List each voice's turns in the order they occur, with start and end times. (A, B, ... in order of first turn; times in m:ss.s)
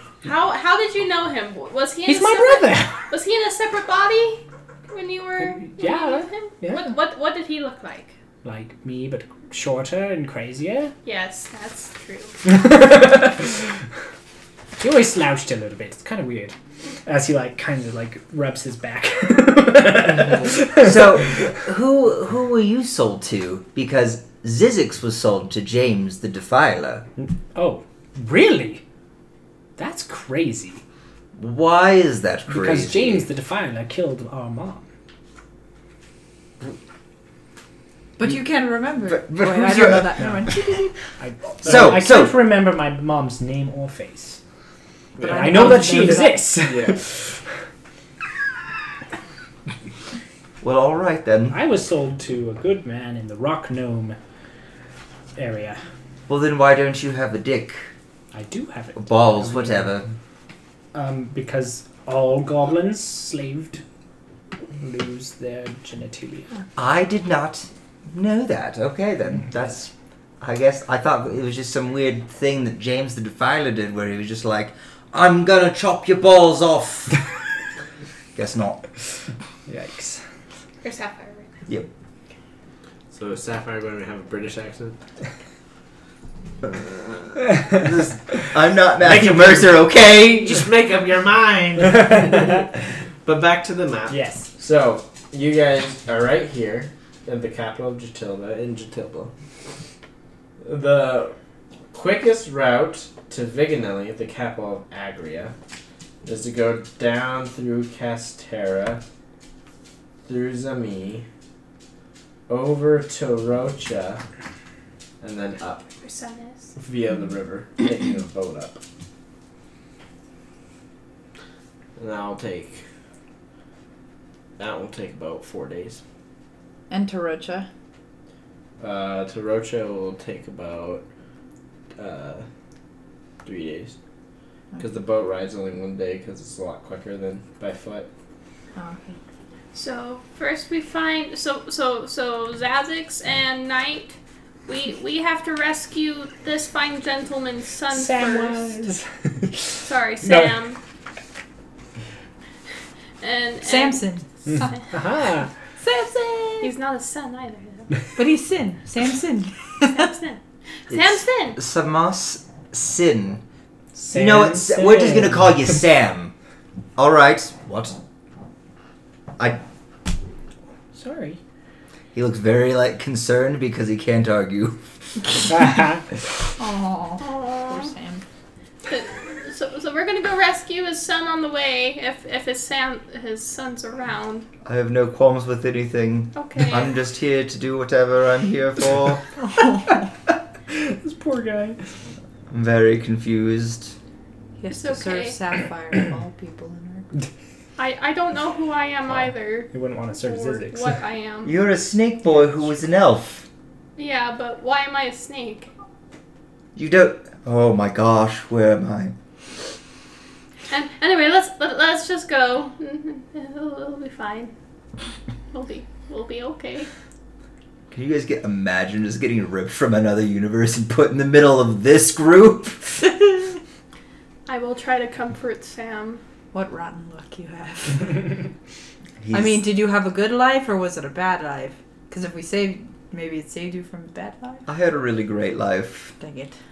0:00.2-0:08.2 A
0:02.1-0:03.0 B
0:05.4-0:07.0 B
0:08.4-0:11.0 B
0:11.0-0:12.4 A
0:12.5-0:13.7 B
0:14.8-0:16.6 B
0:17.1-0:21.0 B
0:20.8-0:27.1 C
0:27.5-0:28.8 B
0:29.8-0:30.8 B
0:31.4-0:33.3 C
0:32.5-0:34.8 B
0:38.2-0:40.9 D
0:39.1-0:40.1 C
0:40.2-0:40.5 B
0:41.2-0:44.4 B
0:41.6-0:42.4 C
0:45.2-0:47.0 E
0:45.2-0:46.4 D
0:45.3-0:47.4 B
0:50.6-0:51.6 C
0:51.5-0:54.2 B
0:55.4-0:55.8 B
0:56.3-0:57.9 C
0:58.3-1:00.0 B
0:59.0-1:00.1 C
1:00.9-1:03.8 B
1:04.7-1:06.5 B
1:06.8-1:17.2 C
1:18.4-1:18.8 C
1:19.7-1:20.2 B
1:20.8-1:21.6 A
1:23.1-1:25.0 E
1:27.4-1:28.5 B
1:27.7-1:30.6 C
1:29.0-1:29.7 B
1:29.1-1:29.5 E
1:30.4-1:32.6 E
1:31.9-1:32.6 B
1:33.2-1:39.3 E
1:34.1-1:34.5 B
1:40.6-1:41.4 E
1:41.9-1:45.5 E
1:46.2-1:49.0 E
1:50.3-1:51.3 E
1:52.5-1:54.2 E
1:55.2-1:55.9 E
1:56.0-1:56.8 A
1:56.8-1:58.8 E
2:02.0-2:02.8 E
2:04.6-2:06.0 E
2:06.9-2:07.7 D
2:08.8-2:11.0 E
2:12.0-2:12.4 E
2:13.4-2:14.0 E
2:14.8-2:18.1 E
2:18.8-2:19.2 D
2:19.7-2:24.2 A
2:24.7-2:28.8 A
2:27.9-2:30.6 B
2:29.8-2:30.8 A
2:33.2-2:35.0 A
2:33.6-2:34.8 D
2:34.5-2:35.5 B
2:35.8-2:36.7 D
2:36.6-2:38.1 A
2:38.2-2:40.1 D
2:39.9-2:41.6 A
2:40.9-2:43.4 C
2:43.9-2:45.8 B
2:44.1-2:46.3 C
2:47.0-2:48.0 C
2:50.9-2:51.4 B
2:52.1-2:54.8 C
2:55.5-2:56.0 B
2:56.6-2:58.2 D
2:57.2-2:57.9 A
2:58.9-3:04.5 A
3:04.6-3:09.2 C
3:06.4-3:07.0 A
3:09.6-3:09.9 D
3:10.7-3:11.9 B
3:12.5-3:14.0 C
3:14.6-3:17.1 D
3:14.7-3:15.4 A
3:17.8-3:21.6 A
3:19.7-3:21.0 B
3:21.4-3:23.5 C
3:24.0-3:25.7 A
3:26.8-3:29.2 C
3:30.7-3:34.5 A
3:35.5-3:36.9 A
3:37.9-3:43.0 C
3:44.5-3:46.2 A
3:46.5-3:48.4 D
3:49.2-3:49.6 C
3:49.3-3:54.6 D
3:54.7-3:56.1 C
3:56.2-3:56.6 D